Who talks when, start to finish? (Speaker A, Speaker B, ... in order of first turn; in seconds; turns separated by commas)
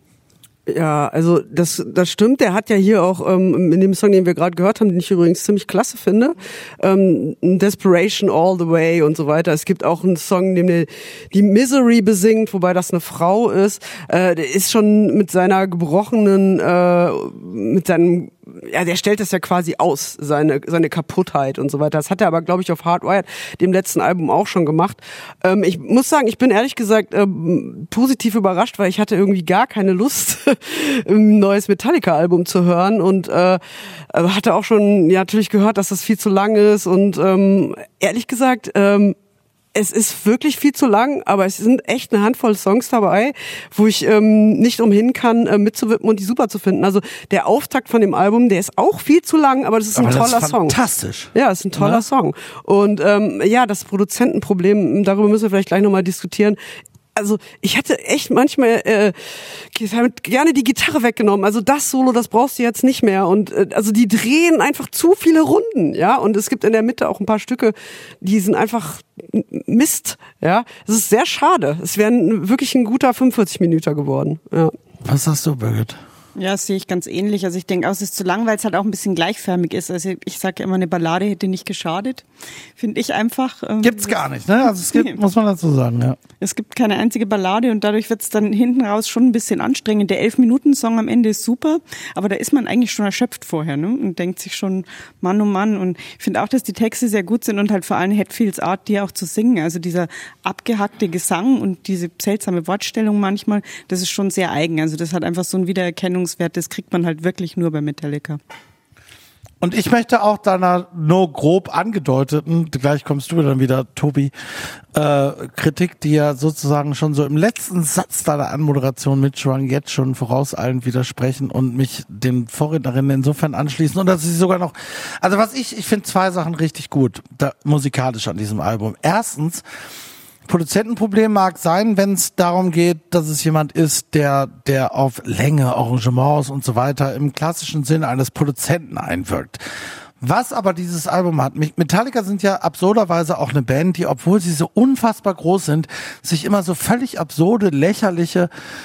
Speaker A: 0.7-33.6, Speaker A: 34.1-39.1, Speaker A: 39.7-50.7, Speaker B: 49.9-52.0, Speaker A: 51.3-56.6, Speaker A: 57.1-74.7, Speaker B: 75.0-76.0, Speaker C: 76.3-82.2, Speaker C: 82.8-85.2, Speaker B: 83.8-86.2, Speaker C: 86.4-108.4, Speaker B: 109.6-129.6, Speaker B: 130.5-139.6, Speaker B: 140.2-148.5